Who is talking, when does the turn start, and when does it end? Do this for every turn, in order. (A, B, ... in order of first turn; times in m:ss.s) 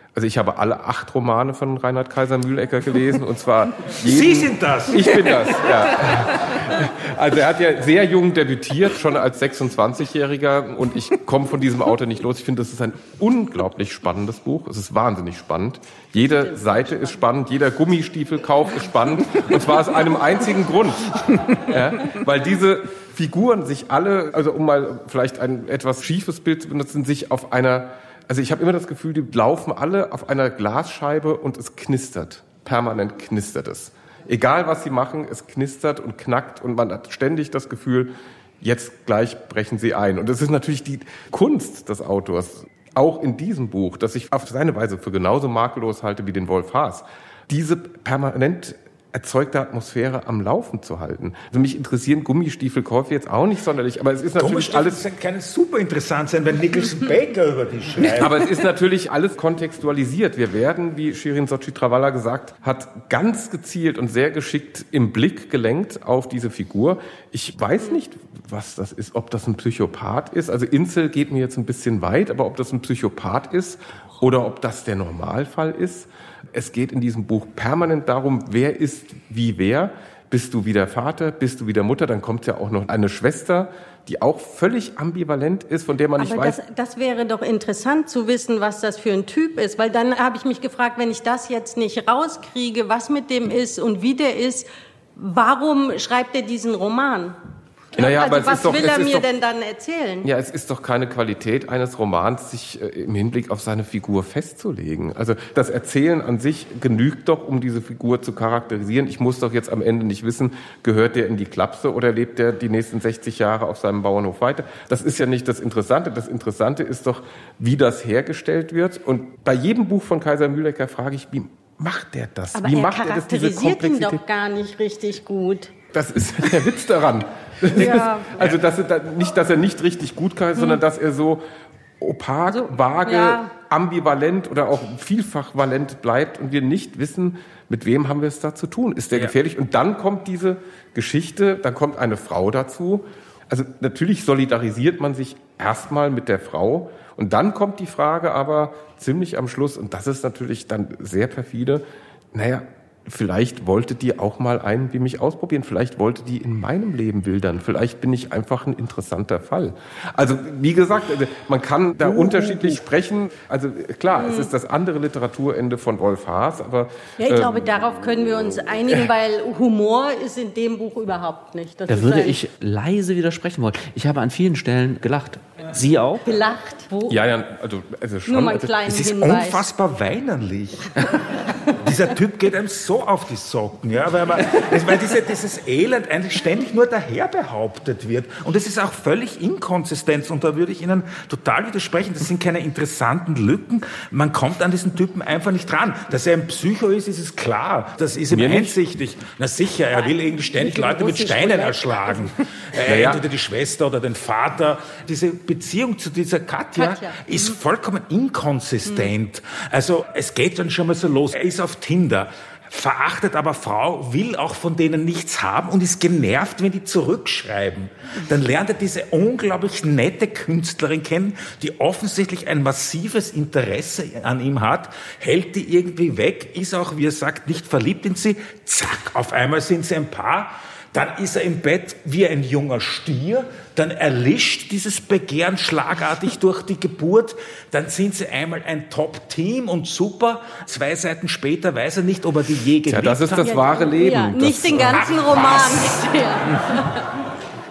0:00.1-0:55.0 A
0:04.0-0:06.6 B
0:16.2-0:17.2 C
0:54.4-0:58.4 B
0:58.2-1:26.6 A
1:26.2-1:37.4 C
1:38.0-1:39.3 A
1:38.0-1:40.3 C
1:40.2-2:04.2 A
2:02.5-2:05.7 C
2:05.9-2:11.4 A
2:07.7-2:08.6 C
2:12.0-2:47.6 A
2:12.5-2:13.5 C
2:42.1-2:42.8 D
2:44.2-2:44.5 C
2:47.2-2:52.4 C
2:51.9-2:56.2 D
2:56.2-2:57.4 C
2:57.1-2:58.9 A
2:58.3-2:59.7 C
2:58.9-4:03.6 B
3:18.3-3:18.8 A
3:19.9-3:22.3 C
3:22.8-3:23.2 A
3:26.7-3:27.6 C
4:02.9-4:05.0 A
4:03.4-4:07.1 C
4:05.0-4:06.0 B